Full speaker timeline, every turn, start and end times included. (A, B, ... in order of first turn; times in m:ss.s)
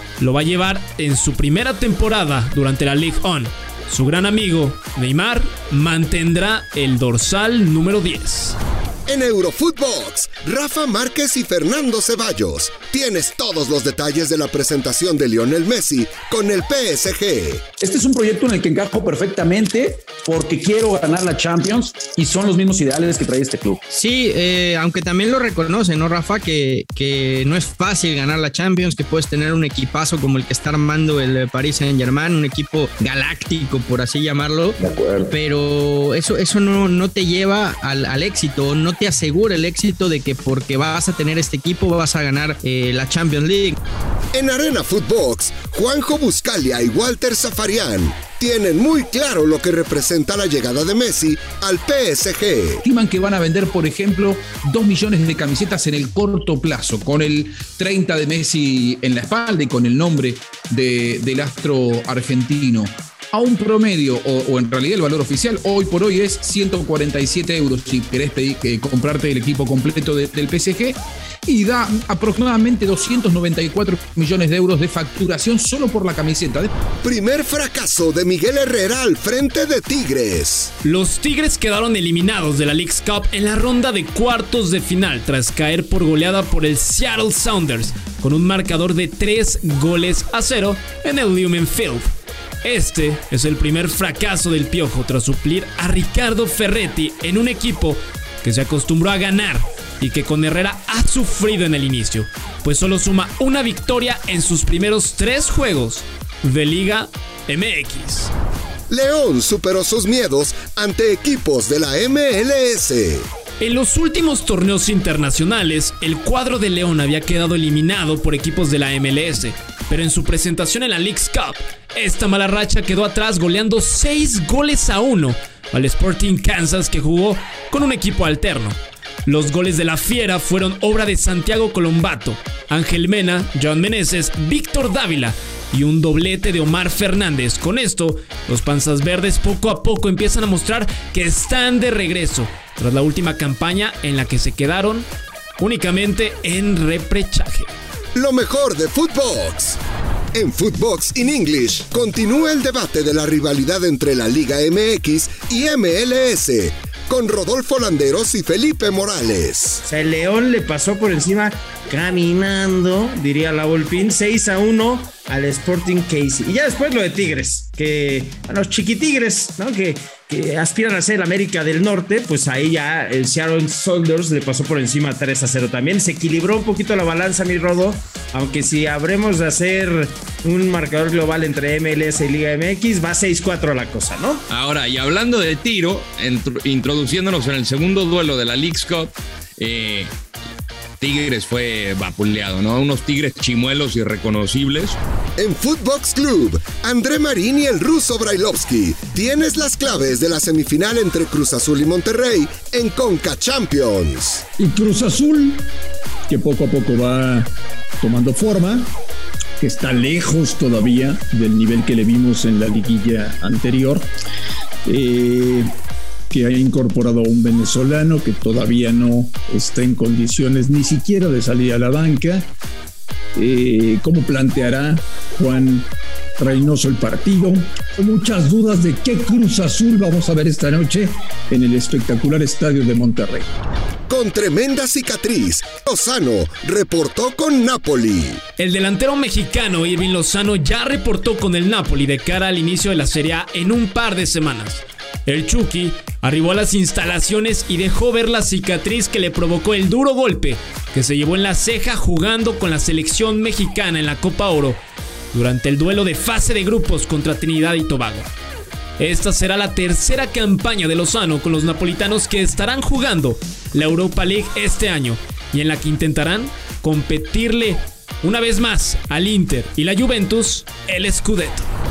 0:00.2-0:08.6 A
0:09.1-0:17.6 B
0:17.8-0:23.8 C
0:23.9-0:43.8 D
0:44.3-0:52.8 B
0:52.8-1:16.7 E
1:17.0-1:20.7 B
1:20.8-1:32.1 A
1:32.6-1:48.3 A
1:48.9-1:53.3 B
1:53.6-2:25.1 A
2:25.6-2:27.7 A
2:28.2-2:29.8 B
2:30.3-2:39.8 B
2:39.8-3:04.4 F
3:04.5-3:10.1 G
3:11.0-3:15.0 G
3:15.4-3:24.4 B
3:24.6-3:25.7 H
3:26.3-3:27.5 H
3:28.0-3:28.9 H
3:29.6-3:34.1 H
3:34.9-3:35.7 H
3:36.3-3:42.4 H
3:43.4-3:53.5 H
3:54.1-3:58.4 B
3:58.6-4:14.8 A
4:15.3-4:18.3 A
4:19.0-4:31.7 A